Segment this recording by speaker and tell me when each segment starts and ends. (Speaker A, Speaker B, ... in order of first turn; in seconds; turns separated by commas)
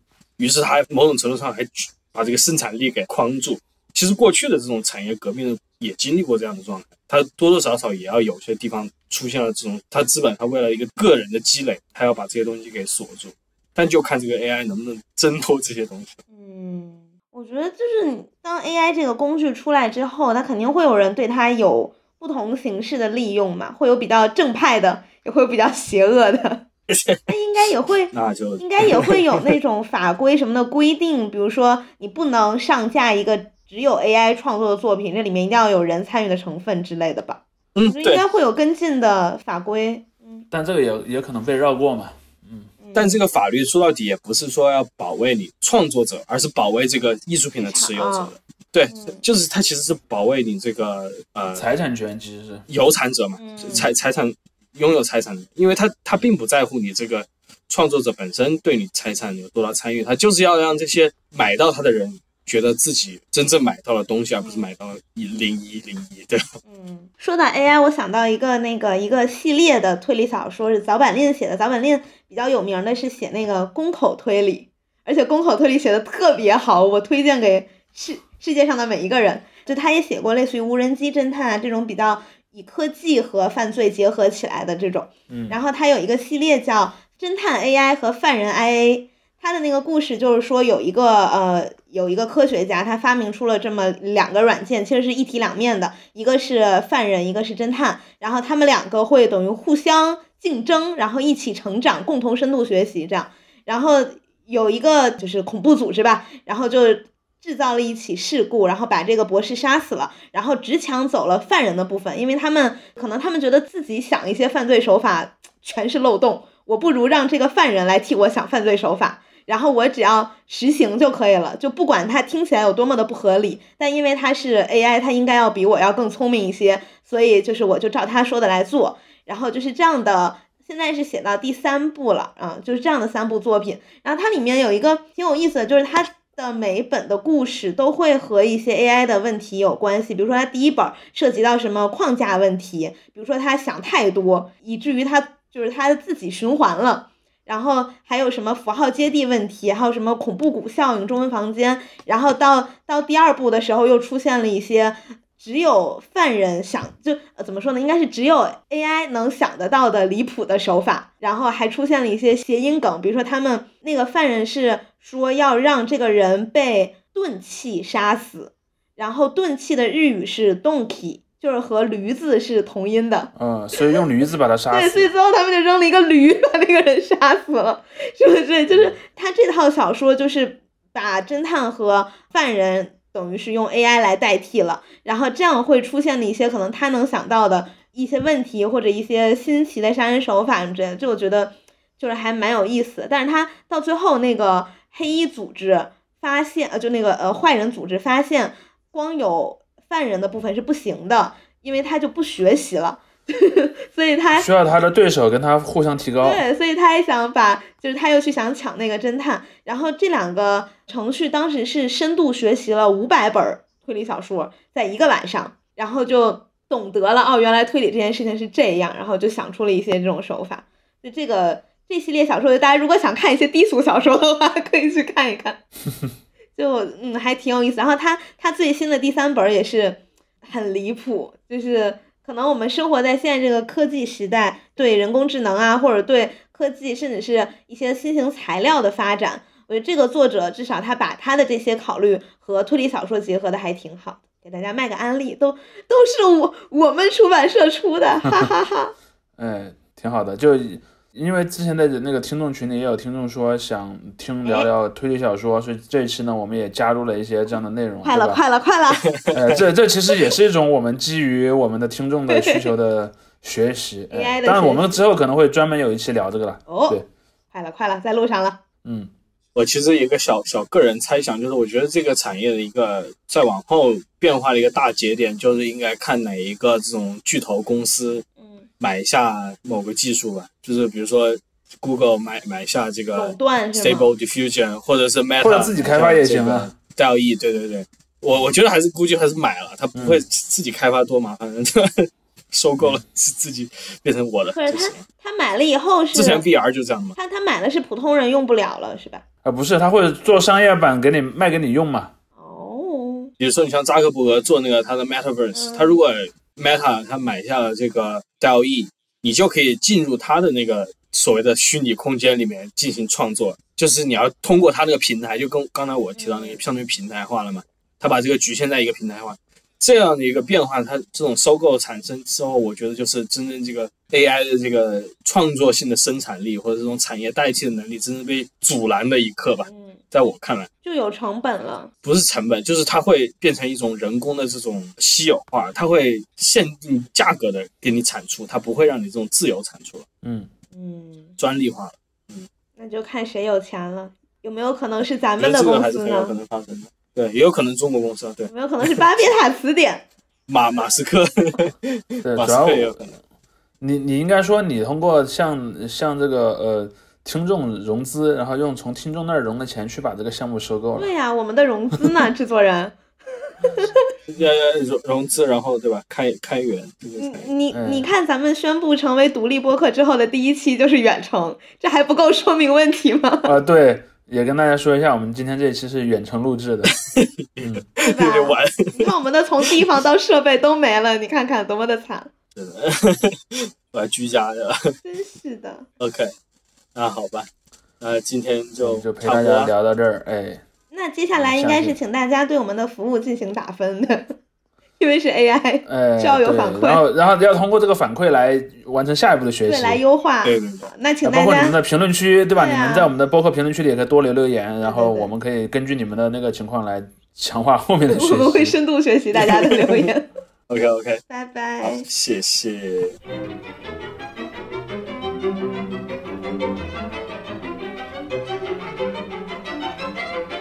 Speaker A: 0.4-16.2, Speaker B: 16.3-26.6, Speaker A: 26.9-27.2, Speaker B: 27.3-40.4, Speaker A: 28.1-29.5, Speaker A: 37.7-38.2, Speaker C: 40.5-42.7, Speaker B: 42.8-43.1, Speaker A: 42.9-51.7, Speaker B: 47.6-48.3, Speaker B: 48.9-49.2, Speaker C: 51.5-52.6, Speaker A: 52.7-66.4, Speaker B: 53.4-53.9, Speaker B: 64.4-64.7, Speaker B: 66.7-174.0, Speaker C: 85.3-85.5, Speaker C: 173.3-175.1, Speaker B: 174.7-204.5, Speaker C: 204.4-206.4, Speaker B: 206.2-225.6, Speaker B: 226.5-248.9, Speaker C: 249.4-258.4, Speaker B: 258.0-259.1, Speaker A: 259.1-259.6, Speaker C: 259.3-267.0, Speaker B: 262.3-262.7, Speaker B: 264.1-265.0, Speaker B: 266.7-267.0, Speaker B: 267.5-268.6, Speaker C: 268.8-269.1, Speaker A: 269.5-278.2, Speaker A: 278.8-295.0, Speaker B: 283.1-284.1, Speaker C: 285.4-286.7, Speaker C: 289.9-290.2, Speaker B: 294.5-296.4, Speaker A: 296.1-297.2, Speaker B: 297.1-299.2, Speaker C: 299.4-302.1, Speaker B: 302.4-303.3, Speaker A: 303.4-330.7, Speaker B: 305.5-306.0, Speaker B: 316.1-316.6, Speaker B: 329.6-330.0, Speaker B: 330.8-331.9, Speaker A: 332.0-340.1, Speaker C: 340.2-340.5, Speaker B: 340.7-341.3, Speaker A: 341.4-342.5, Speaker B: 342.8-346.3, Speaker A: 345.4-349.1, Speaker B: 348.5-350.0, Speaker A: 350.5-353.1, Speaker C: 352.2-353.0, Speaker C: 353.8-361.1, Speaker B: 360.9-363.0, Speaker B: 363.7-364.0, Speaker A: 364.3-367.5, Speaker B: 367.2-373.5, Speaker C: 367.7-368.1, Speaker C: 373.4-376.9, Speaker A: 376.9-379.1, Speaker B: 378.0-382.3, Speaker A: 382.6-384.9, Speaker B: 385.0-385.9, Speaker A: 386.0-386.3, Speaker A: 386.9-387.5, Speaker A: 388.0-389.7, Speaker C: 388.8-390.6, Speaker B: 390.9-394.3, Speaker C: 391.4-392.0, Speaker B: 395.0-397.0, Speaker C: 395.8-400.0, Speaker B: 399.6-401.8, Speaker A: 400.4-400.9, Speaker C: 401.2-408.8, Speaker B: 402.5-403.1, Speaker B: 404.8-405.3, Speaker B: 408.1-410.3, Speaker A: 409.4-410.1, Speaker A: 410.7-411.2, Speaker B: 411.3-412.1, Speaker A: 411.8-413.1